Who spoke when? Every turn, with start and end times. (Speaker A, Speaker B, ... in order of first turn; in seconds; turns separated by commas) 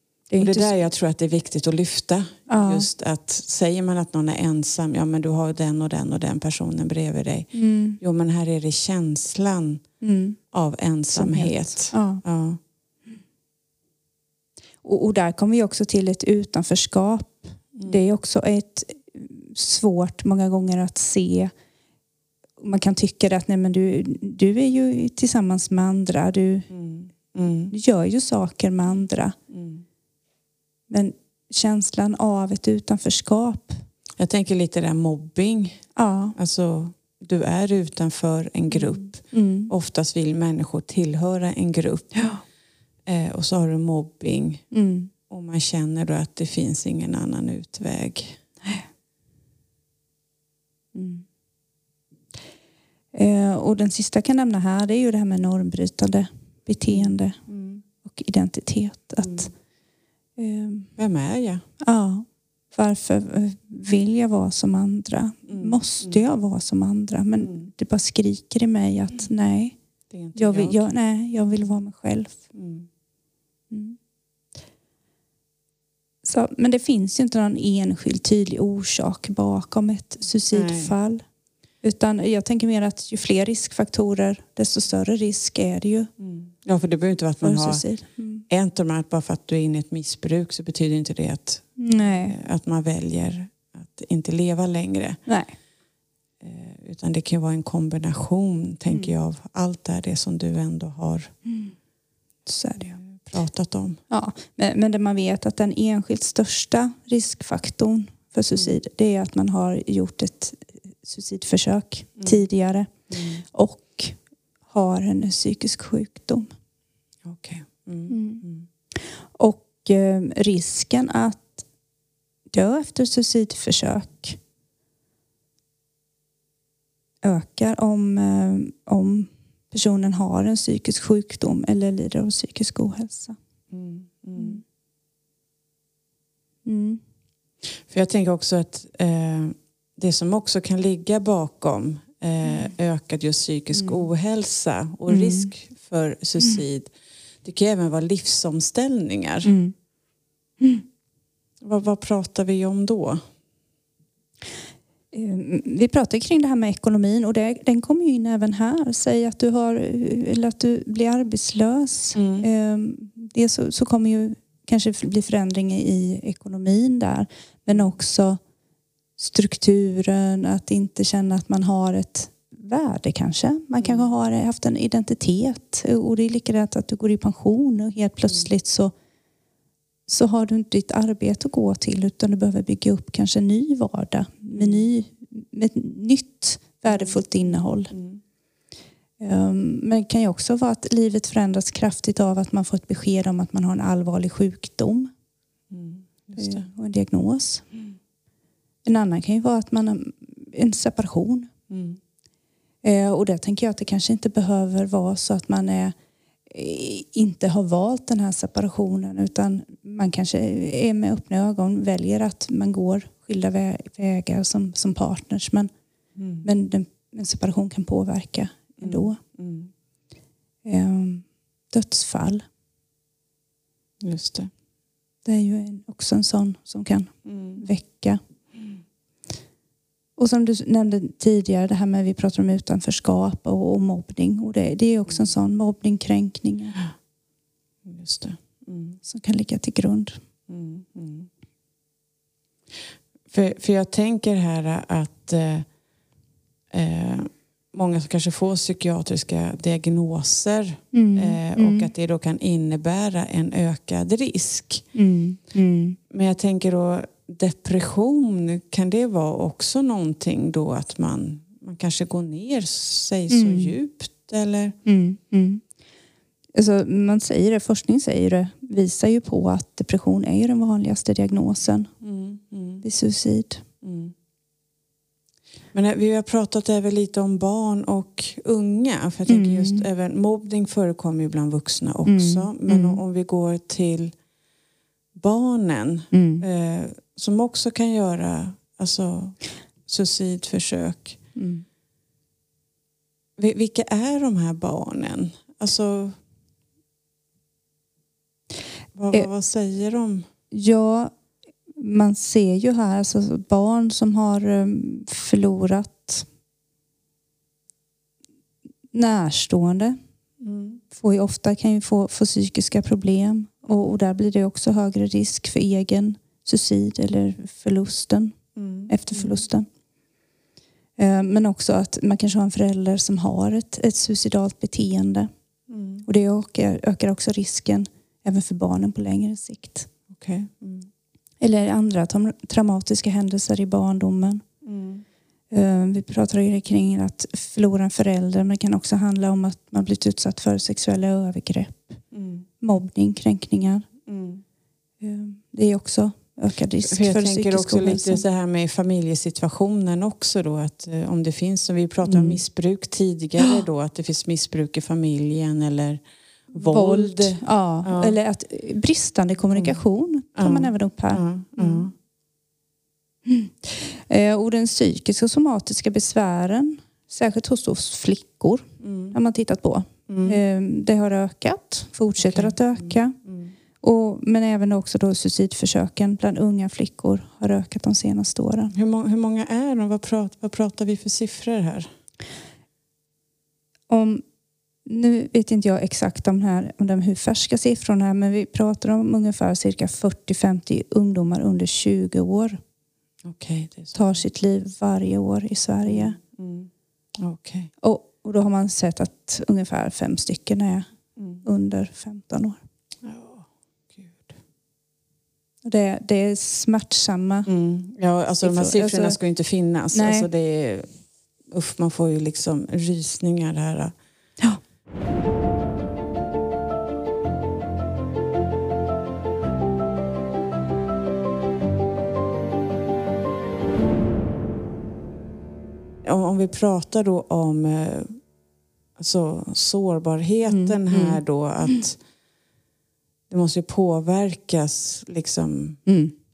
Speaker A: 0.3-0.8, Speaker B: 0.4-9.8, Speaker A: 2.5-2.9, Speaker A: 7.5-8.0, Speaker A: 10.0-10.4, Speaker B: 10.5-12.6, Speaker A: 11.1-12.2, Speaker A: 14.8-21.5, Speaker A: 22.6-26.7, Speaker B: 26.7-27.7, Speaker A: 27.7-29.4, Speaker B: 29.5-29.8, Speaker A: 30.9-33.8, Speaker B: 34.2-42.3, Speaker A: 36.0-36.4, Speaker A: 38.7-39.7, Speaker A: 42.1-42.4, Speaker B: 43.1-44.7, Speaker A: 44.7-45.1, Speaker B: 45.3-48.4, Speaker A: 51.0-51.2, Speaker A: 53.1-57.4, Speaker B: 56.9-57.8, Speaker A: 58.0-59.5, Speaker A: 60.4-60.9, Speaker B: 61.0-61.6, Speaker A: 61.8-69.8, Speaker B: 65.5-66.2, Speaker B: 67.4-67.7, Speaker B: 70.1-70.9, Speaker A: 70.3-72.4, Speaker B: 72.5-72.9, Speaker A: 73.7-74.0, Speaker A: 76.2-81.2, Speaker B: 80.5-80.9, Speaker A: 81.8-86.1, Speaker B: 86.2-87.8, Speaker A: 87.4-88.5, Speaker B: 88.5-95.2, Speaker A: 91.8-92.3, Speaker A: 95.3-95.5, Speaker B: 96.4-101.3, Speaker A: 102.5-103.0, Speaker B: 102.8-104.0, Speaker A: 104.1-116.5, Speaker B: 112.2-112.4, Speaker B: 113.1-113.4, Speaker B: 117.2-118.7, Speaker A: 118.1-118.4, Speaker A: 119.3-121.7, Speaker A: 122.5-124.4, Speaker A: 127.2-133.4, Speaker B: 133.7-134.6, Speaker A: 136.7-137.0, Speaker B: 137.9-146.9, Speaker A: 143.8-144.1, Speaker A: 145.1-145.5, Speaker B: 147.4-149.5, Speaker A: 149.4-149.7, Speaker B: 151.6-153.2, Speaker A: 155.1-168.4, Speaker B: 162.2-162.5, Speaker A: 169.2-178.9, Speaker B: 173.8-174.1, Speaker A: 180.1-187.9, Speaker B: 184.5-184.9, Speaker B: 186.9-188.2, Speaker A: 189.2-195.1, Speaker B: 195.7-196.7, Speaker A: 196.4-197.7, Speaker A: 198.8-201.5, Speaker B: 201.7-202.0, Speaker A: 202.8-205.9, Speaker A: 206.5-215.7, Speaker B: 216.2-216.5, Speaker A: 216.4-219.2, Speaker B: 218.8-219.7, Speaker A: 220.6-222.5, Speaker B: 224.0-224.5, Speaker A: 225.2-228.2, Speaker B: 227.3-227.6, Speaker A: 230.2-236.8, Speaker B: 237.8-239.0, Speaker A: 239.0-240.2, Speaker B: 240.5-241.3, Speaker B: 243.3-245.7, Speaker B: 246.7-254.9, Speaker A: 250.9-251.9, Speaker A: 254.9-256.0, Speaker B: 256.1-264.8, Speaker A: 263.3-263.8, Speaker A: 264.9-265.6, Speaker A: 266.6-271.9, Speaker B: 272.0-272.8, Speaker A: 272.8-273.6, Speaker B: 273.8-274.1, Speaker B: 275.7-284.1, Speaker A: 279.3-279.8, Speaker A: 282.1-283.0, Speaker B: 285.1-291.2, Speaker A: 286.1-286.4, Speaker A: 291.4-291.6, Speaker B: 293.4-296.2, Speaker B: 298.9-300.3, Speaker A: 300.5-301.1, Speaker A: 301.8-306.3, Speaker A: 308.9-310.0, Speaker B: 310.4-310.8, Speaker A: 310.9-319.7, Speaker B: 318.6-319.4, Speaker A: 321.0-325.3, Speaker B: 325.7-326.1, Speaker A: 326.1-329.9, Speaker B: 330.1-330.9, Speaker A: 331.4-334.4, Speaker B: 334.6-335.0, Speaker A: 335.5-342.0, Speaker B: 342.1-342.5, Speaker A: 342.6-343.9, Speaker B: 344.1-344.4, Speaker A: 345.0-348.2, Speaker B: 346.8-358.2, Speaker A: 352.0-352.4, Speaker A: 356.5-361.9, Speaker B: 359.5-359.8, Speaker B: 360.4-361.9, Speaker A: 363.3-373.2, Speaker B: 368.8-369.2, Speaker B: 370.1-370.4, Speaker B: 372.2-373.5, Speaker A: 373.8-378.7, Speaker B: 378.7-381.9, Speaker A: 383.9-384.2, Speaker A: 384.9-392.6, Speaker B: 393.2-394.2, Speaker A: 393.9-396.2, Speaker B: 395.8-397.7, Speaker A: 397.8-400.9, Speaker B: 401.2-401.4, Speaker A: 401.4-402.6, Speaker B: 403.0-404.4, Speaker A: 405.6-407.5, Speaker B: 407.5-410.9, Speaker A: 408.4-409.2, Speaker A: 409.9-410.3, Speaker B: 411.5-413.9, Speaker B: 426.0-428.2, Speaker B: 429.0-432.0, Speaker A: 430.5-431.2, Speaker B: 433.3-435.8, Speaker A: 435.9-436.1